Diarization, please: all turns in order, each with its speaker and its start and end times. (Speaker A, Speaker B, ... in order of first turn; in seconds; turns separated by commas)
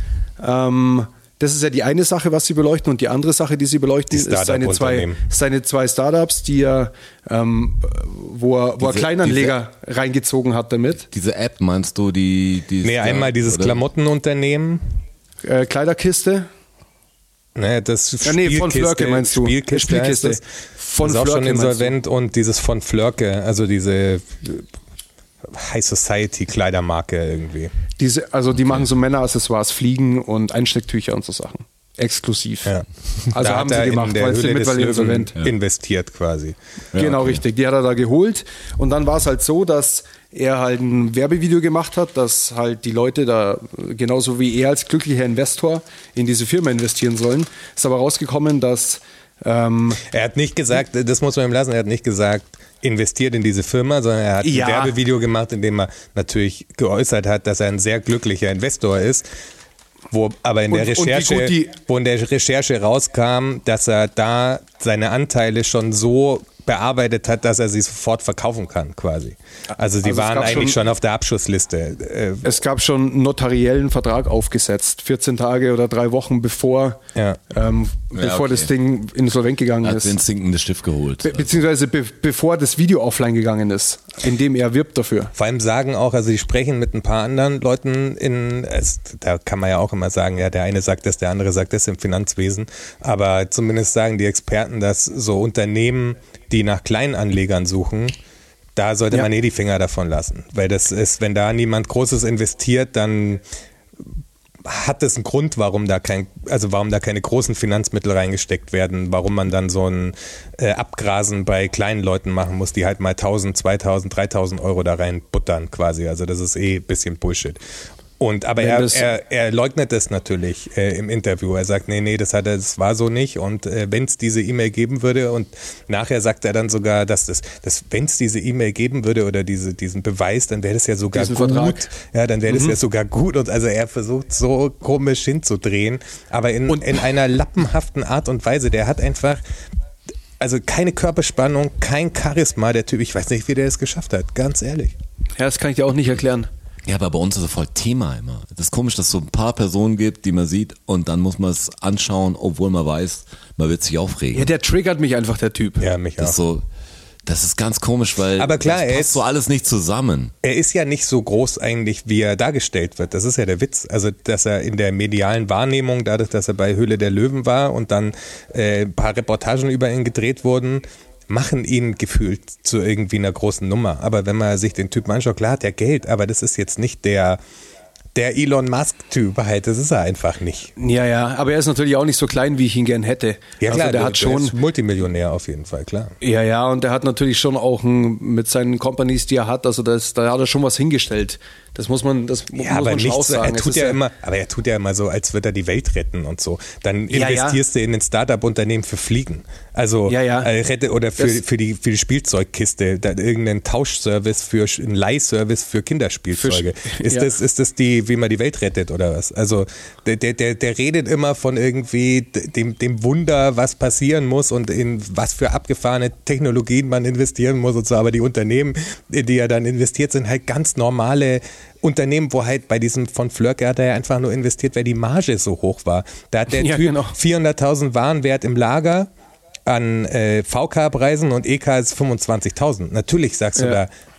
Speaker A: 0.4-11.1, Speaker B: 4.1-5.2, Speaker C: 8.8-9.5, Speaker C: 11.1-13.8, Speaker B: 12.8-15.0, Speaker A: 15.4-16.5, Speaker B: 17.5-20.4, Speaker A: 18.2-21.9, Speaker B: 21.0-24.7, Speaker B: 25.4-27.7, Speaker A: 28.0-32.8, Speaker A: 33.3-35.3, Speaker B: 33.4-36.5, Speaker C: 36.9-37.4, Speaker A: 36.9-50.0, Speaker B: 50.0-59.2, Speaker A: 54.4-55.0, Speaker B: 60.1-72.6, Speaker A: 60.7-61.7, Speaker A: 70.0-70.8, Speaker A: 72.4-80.2, Speaker B: 77.1-77.4, Speaker C: 78.2-78.7, Speaker C: 79.8-81.5, Speaker A: 81.2-85.3, Speaker B: 85.3-98.2, Speaker B: 98.8-103.4, Speaker B: 104.6-117.6, Speaker B: 118.2-139.4, Speaker A: 118.6-119.1, Speaker A: 131.1-131.9, Speaker A: 132.5-132.8, Speaker B: 140.4-144.9, Speaker A: 145.4-146.5, Speaker C: 146.8-154.5, Speaker A: 154.3-155.9, Speaker B: 155.8-156.4, Speaker C: 156.2-156.6, Speaker C: 157.2-160.3, Speaker B: 158.4-159.2, Speaker B: 160.4-177.4, Speaker B: 178.1-180.7, Speaker A: 180.8-184.6, Speaker B: 183.6-186.1, Speaker A: 186.2-194.0, Speaker B: 192.6-229.1, Speaker A: 197.1-197.6, Speaker A: 200.1-200.5, Speaker A: 206.3-207.3, Speaker A: 226.5-227.1, Speaker B: 229.7-233.9, Speaker A: 233.6-233.8